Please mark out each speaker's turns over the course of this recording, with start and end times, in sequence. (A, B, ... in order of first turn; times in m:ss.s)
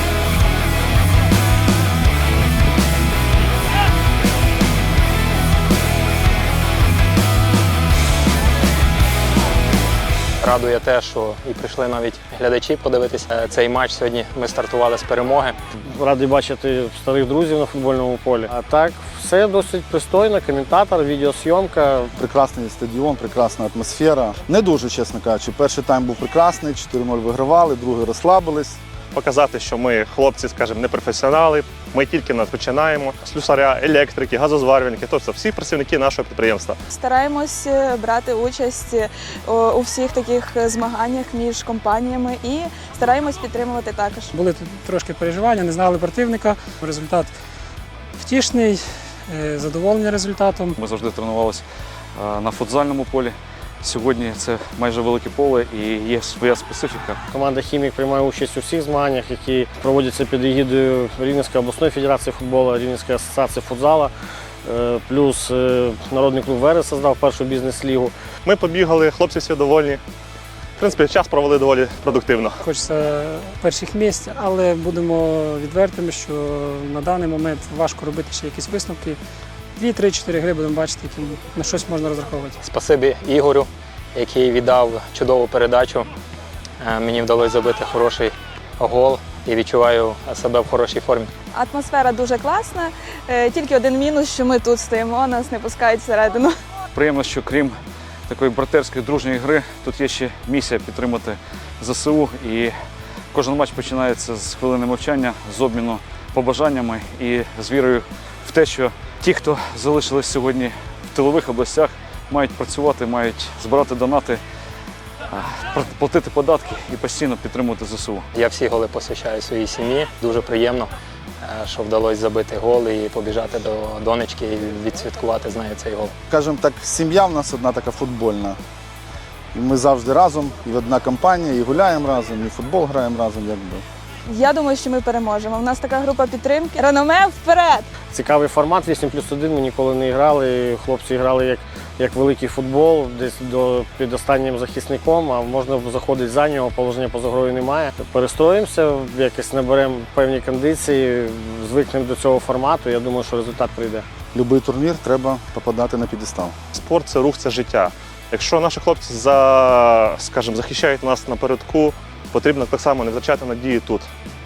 0:10.4-0:15.6 A
0:15.9-0:22.1 B
0:22.2-0:28.8 C
0:29.1-0:36.8 D
0:36.9-0:44.3 E
0:44.3-0:47.3 F
0:48.2-0:50.8 F
0:50.8-0:51.6 G
0:52.2-0:57.2 G
0:57.3-1:04.1 B
1:04.6-1:08.1 B
1:08.4-1:10.0 D
1:10.8-1:12.6 D
1:12.6-1:19.2 F
1:19.8-1:22.6 F
1:22.6-1:26.1 A
1:26.8-1:31.3 A
1:31.5-1:36.5 E
1:36.9-1:37.8 G
1:38.3-1:42.7 G
1:43.3-1:54.4 G
1:55.3-1:58.2 G
1:58.3-2:00.9 A
2:01.4-2:06.1 A
2:06.3-2:08.6 C
2:09.5-2:13.8 C
2:14.3-2:17.9 E
2:18.1-2:34.1 B
2:34.3-2:36.5 C
2:36.7-2:44.1 D